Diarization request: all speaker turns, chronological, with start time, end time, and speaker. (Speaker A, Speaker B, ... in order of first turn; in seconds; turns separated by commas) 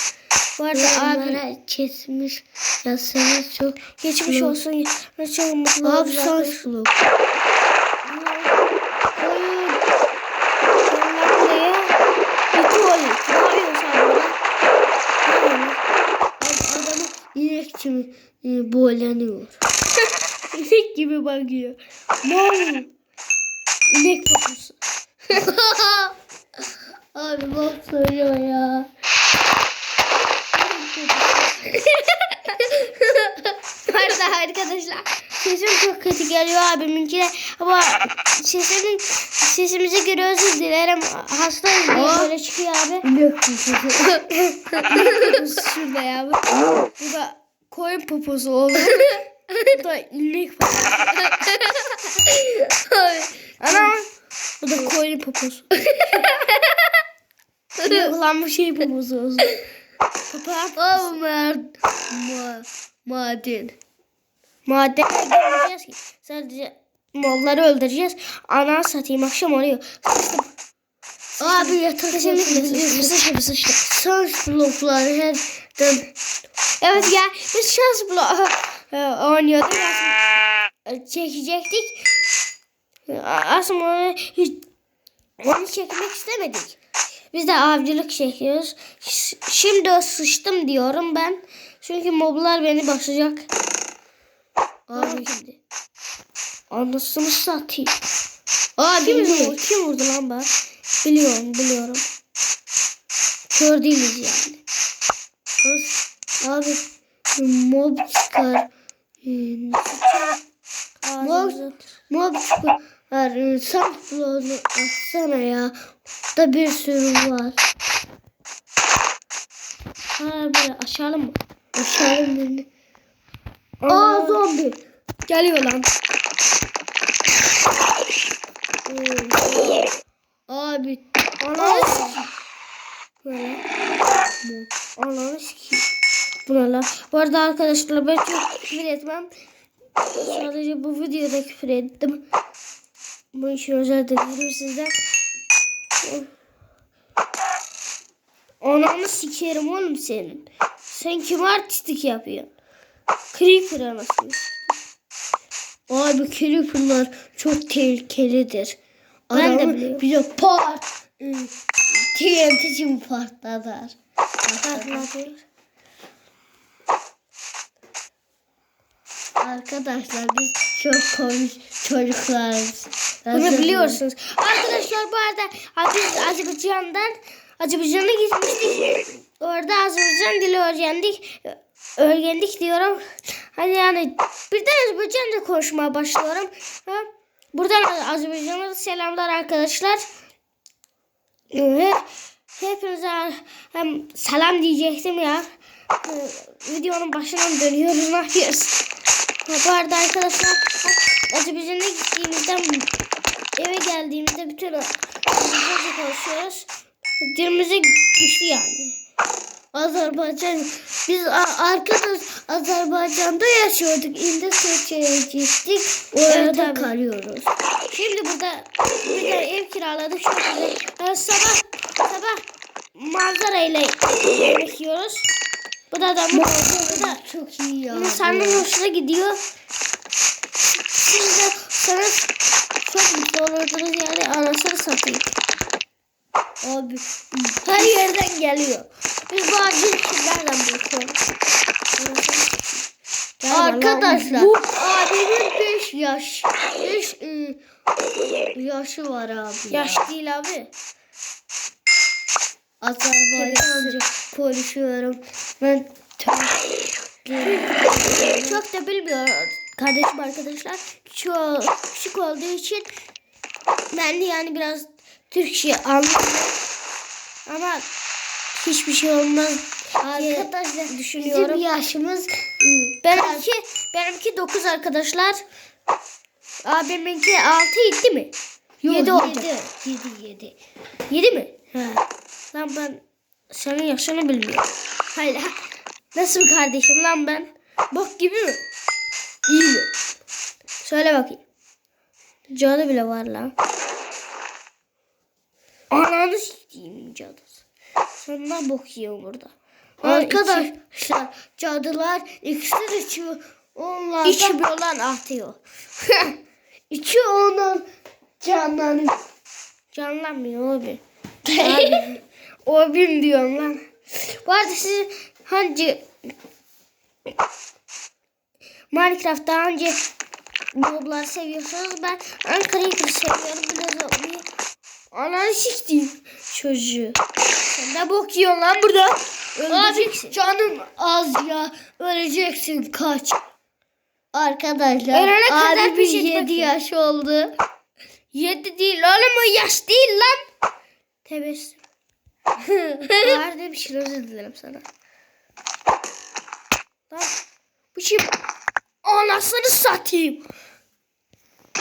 Speaker A: 0.6-1.4, Speaker B: 0.7-4.5, Speaker A: 4.0-6.6, Speaker B: 5.8-7.0, Speaker A: 8.0-8.6, Speaker A: 9.2-9.8, Speaker A: 10.8-11.9, Speaker A: 12.5-14.4, Speaker A: 15.3-15.8, Speaker B: 16.4-19.6, Speaker A: 20.5-22.9, Speaker A: 23.9-24.8, Speaker B: 25.3-26.1, Speaker B: 27.1-28.9, Speaker A: 30.6-31.8, Speaker A: 33.8-43.0, Speaker B: 41.9-42.3, Speaker B: 43.0-45.4, Speaker A: 44.9-51.6, Speaker B: 52.2-53.9, Speaker A: 53.6-54.1, Speaker A: 54.6-55.7, Speaker B: 55.9-56.4, Speaker A: 57.8-59.5, Speaker B: 57.8-58.1, Speaker A: 60.3-61.1, Speaker B: 60.8-63.8, Speaker A: 64.7-70.5, Speaker B: 71.4-73.3, Speaker A: 71.4-73.9, Speaker B: 73.8-76.1, Speaker A: 76.8-80.2, Speaker A: 80.8-82.0, Speaker A: 83.1-84.6, Speaker A: 85.4-86.8, Speaker A: 87.3-93.5, Speaker B: 94.9-95.3, Speaker A: 94.9-95.6, Speaker A: 96.7-98.0, Speaker B: 98.8-99.5, Speaker A: 99.0-100.5, Speaker A: 101.0-102.0, Speaker A: 103.5-104.6, Speaker B: 105.6-106.8, Speaker B: 107.3-108.7, Speaker B: 109.2-110.3, Speaker A: 111.0-111.9, Speaker B: 111.2-115.7, Speaker B: 116.3-117.6, Speaker A: 120.2-121.4, Speaker B: 121.7-122.7, Speaker A: 123.8-124.4, Speaker B: 123.9-124.8, Speaker A: 125.3-125.9, Speaker B: 128.9-129.8, Speaker B: 130.5-131.0, Speaker A: 131.4-132.2, Speaker B: 131.5-132.3, Speaker A: 133.2-133.6, Speaker B: 134.4-134.7, Speaker A: 134.9-135.9, Speaker A: 136.4-139.3, Speaker A: 140.1-142.2, Speaker A: 143.3-144.9, Speaker A: 146.0-146.3, Speaker A: 148.6-152.5, Speaker A: 153.3-154.7, Speaker B: 155.9-158.8, Speaker B: 159.3-165.1, Speaker A: 159.3-160.0, Speaker A: 164.7-165.4, Speaker B: 169.4-174.0, Speaker A: 173.3-183.0, Speaker A: 183.5-190.0, Speaker A: 191.5-192.0, Speaker A: 192.6-195.5, Speaker A: 196.0-198.8, Speaker A: 199.4-202.9, Speaker A: 203.6-206.7, Speaker A: 207.2-209.0, Speaker B: 209.7-217.5, Speaker A: 216.2-216.9, Speaker A: 217.9-222.4, Speaker A: 222.9-225.3, Speaker A: 225.9-227.2, Speaker B: 226.3-228.7, Speaker A: 227.9-229.4, Speaker A: 230.9-232.2, Speaker A: 232.8-235.3, Speaker B: 236.6-238.1, Speaker A: 237.6-241.2, Speaker A: 242.0-242.7, Speaker A: 243.4-244.8, Speaker B: 243.5-247.6, Speaker B: 248.5-250.1, Speaker A: 249.7-250.7, Speaker B: 252.8-258.6, Speaker A: 253.3-254.0, Speaker A: 257.4-262.9, Speaker A: 263.9-266.6, Speaker A: 267.4-267.8, Speaker A: 268.5-271.6, Speaker B: 270.0-273.4, Speaker A: 273.0-275.4, Speaker A: 276.6-278.3, Speaker B: 278.8-280.6, Speaker A: 278.8-279.6, Speaker A: 281.1-281.8, Speaker A: 282.5-285.6, Speaker A: 286.1-288.6, Speaker A: 289.5-289.9, Speaker A: 290.8-291.4, Speaker A: 292.5-293.5, Speaker A: 295.9-297.6, Speaker A: 298.2-300.7, Speaker B: 300.0-304.6, Speaker A: 304.2-305.6, Speaker B: 306.9-307.8, Speaker B: 308.4-309.1, Speaker A: 309.9-311.0, Speaker B: 311.4-312.2, Speaker A: 311.6-312.0, Speaker A: 312.6-316.1, Speaker A: 318.9-320.0, Speaker A: 320.7-324.4, Speaker A: 325.1-327.2, Speaker A: 327.7-330.3, Speaker B: 329.7-333.4, Speaker B: 334.3-337.5, Speaker A: 335.1-336.7, Speaker A: 338.3-340.4, Speaker A: 341.2-341.8, Speaker B: 343.0-343.4, Speaker A: 343.2-344.8, Speaker A: 347.9-348.3, Speaker A: 349.0-350.4